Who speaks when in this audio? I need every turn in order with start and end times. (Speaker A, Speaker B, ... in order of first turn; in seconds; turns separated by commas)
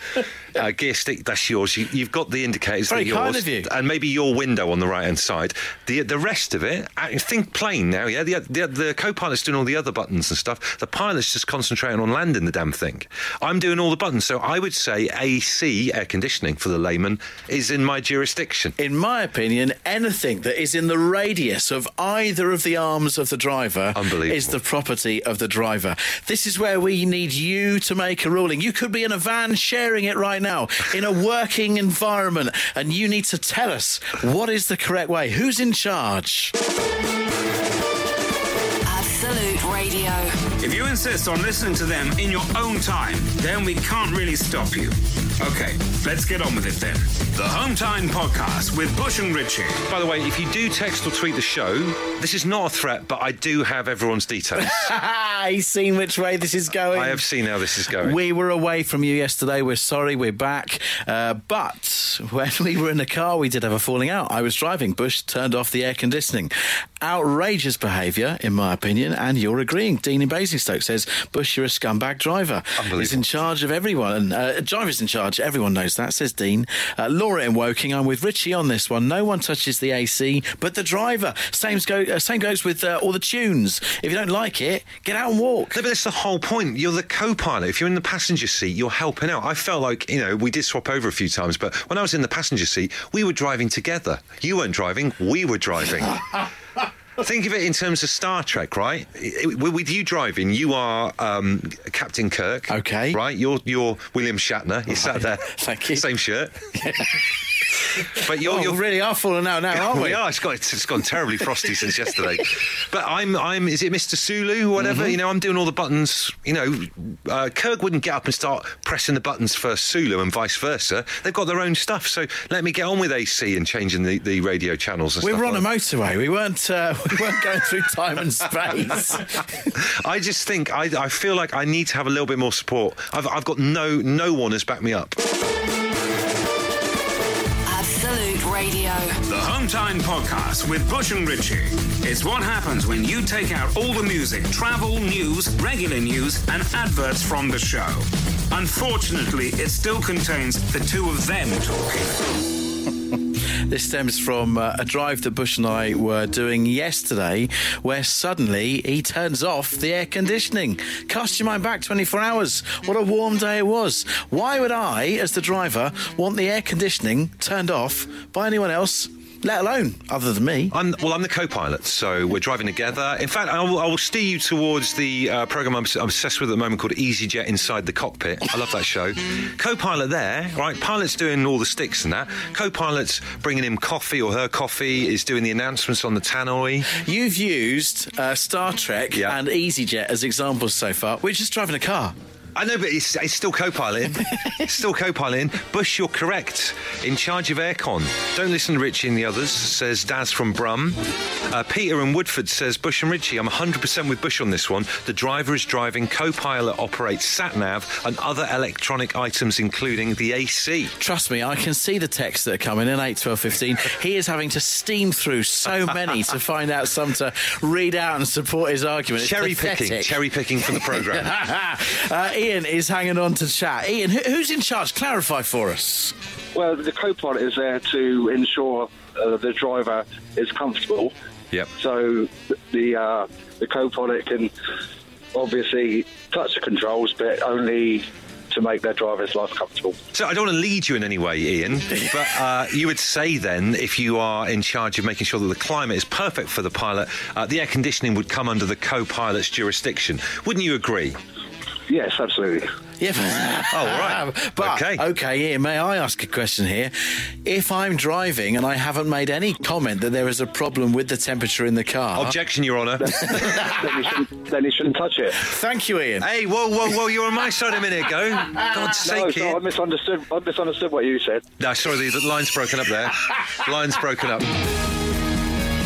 Speaker A: 0.5-18.7, Speaker B: 2.9-3.7, Speaker B: 18.8-36.5, Speaker A: 23.9-24.6, Speaker C: 38.8-40.4, Speaker D: 40.6-49.8, Speaker A: 49.9-54.8, Speaker B: 54.6-57.3, Speaker A: 56.9-58.2, Speaker B: 57.9-85.8, Speaker A: 72.8-73.2, Speaker A: 85.7-96.5, Speaker A: 97.2-106.6, Speaker B: 102.7-103.2, Speaker B: 104.9-106.0, Speaker B: 106.7-107.3, Speaker A: 108.0-108.8, Speaker B: 108.2-110.2, Speaker A: 109.7-125.6, Speaker B: 114.8-115.2, Speaker B: 125.2-129.4, Speaker A: 129.8-135.2, Speaker C: 137.7-139.2, Speaker D: 139.2-152.2, Speaker B: 153.7-170.7, Speaker A: 170.7-186.9, Speaker B: 186.9-192.1, Speaker A: 192.6-210.9, Speaker B: 211.0-220.2, Speaker A: 219.2-221.3, Speaker B: 220.7-226.1, Speaker E: 226.5-231.1, Speaker E: 231.8-234.5, Speaker E: 235.3-239.9, Speaker A: 240.1-251.2, Speaker E: 251.9-252.7, Speaker B: 253.0-262.3, Speaker A: 253.7-255.0, Speaker A: 262.1-263.7, Speaker E: 263.1-265.4, Speaker B: 265.4-266.3, Speaker A: 266.2-269.6, Speaker E: 269.0-271.4, Speaker A: 271.6-274.5